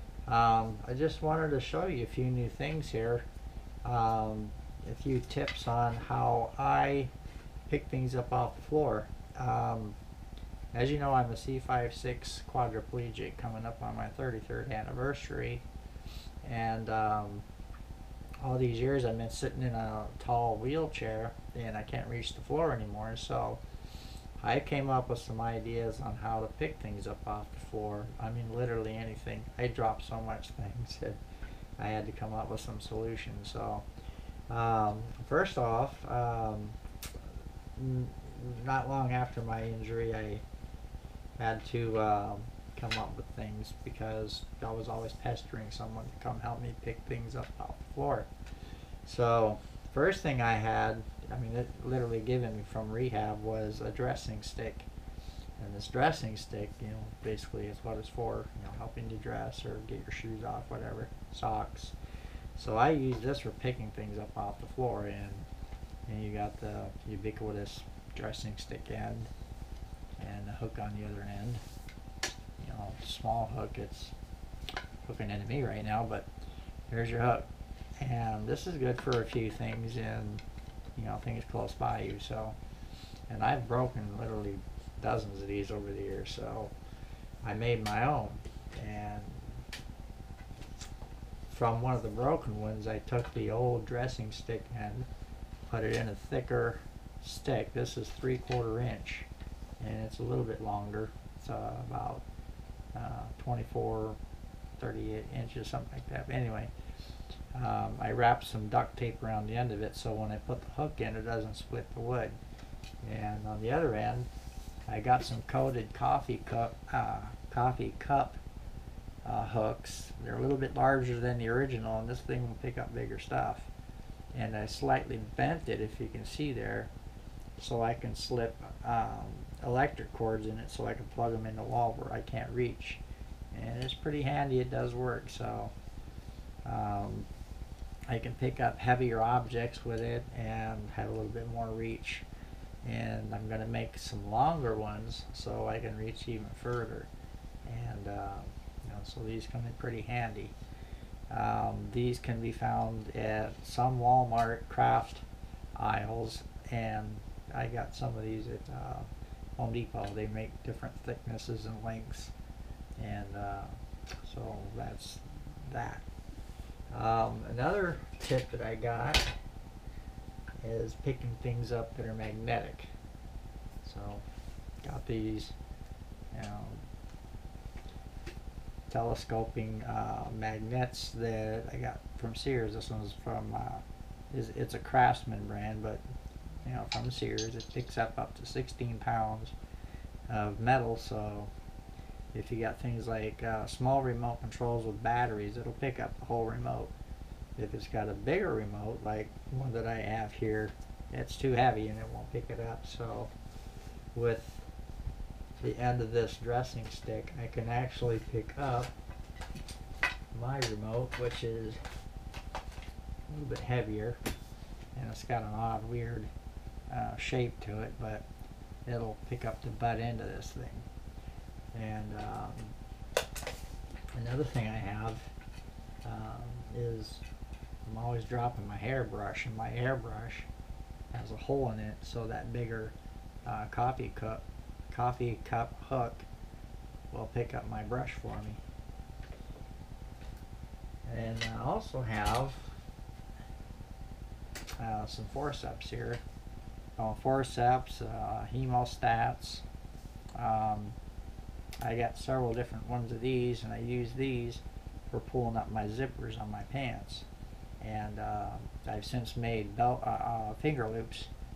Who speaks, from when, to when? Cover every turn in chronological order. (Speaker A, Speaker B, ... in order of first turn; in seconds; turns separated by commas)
Speaker A: 0.3-3.2, Speaker A: 3.8-7.1, Speaker A: 7.7-10.0, Speaker A: 10.7-15.6, Speaker A: 16.4-17.4, Speaker A: 18.4-23.6, Speaker A: 24.4-31.2, Speaker A: 31.8-33.9, Speaker A: 34.5-36.8, Speaker A: 37.8-40.4, Speaker A: 41.4-48.3, Speaker A: 49.0-54.9, Speaker A: 55.6-61.9, Speaker A: 62.5-65.5, Speaker A: 66.1-69.3, Speaker A: 70.2-71.6, Speaker A: 72.6-74.1, Speaker A: 75.0-76.3, Speaker A: 76.9-77.5, Speaker A: 78.0-80.4, Speaker A: 81.0-82.6, Speaker A: 83.3-86.7, Speaker A: 87.4-89.6, Speaker A: 91.5-95.1, Speaker A: 95.7-99.3, Speaker A: 99.8-102.2, Speaker A: 102.9-104.2, Speaker A: 104.8-106.7, Speaker A: 107.5-112.4, Speaker A: 113.0-114.3, Speaker A: 114.9-118.4, Speaker A: 119.2-123.7, Speaker A: 124.3-126.9, Speaker A: 127.6-133.0, Speaker A: 133.5-135.7, Speaker A: 136.6-137.3, Speaker A: 138.1-142.2, Speaker A: 142.8-147.1, Speaker A: 147.6-150.5, Speaker A: 151.3-155.2, Speaker A: 155.8-162.3, Speaker A: 163.0-166.0, Speaker A: 166.9-169.3, Speaker A: 170.6-172.9, Speaker A: 173.8-174.2, Speaker A: 174.8-175.5, Speaker A: 176.3-176.8, Speaker A: 178.9-186.0, Speaker A: 186.6-189.5, Speaker A: 190.3-191.5, Speaker A: 192.3-196.9, Speaker A: 197.6-203.3, Speaker A: 204.1-204.7, Speaker A: 205.6-208.9, Speaker A: 210.3-211.8, Speaker A: 213.3-214.2, Speaker A: 214.9-216.3, Speaker A: 216.9-218.2, Speaker A: 218.8-220.9, Speaker A: 221.7-222.7, Speaker A: 224.1-225.3, Speaker A: 226.0-227.2, Speaker A: 227.8-230.5, Speaker A: 231.1-236.3, Speaker A: 237.1-238.6, Speaker A: 241.1-242.8, Speaker A: 244.8-246.2, Speaker A: 247.0-249.6, Speaker A: 250.3-251.0, Speaker A: 251.8-257.2, Speaker A: 257.8-261.3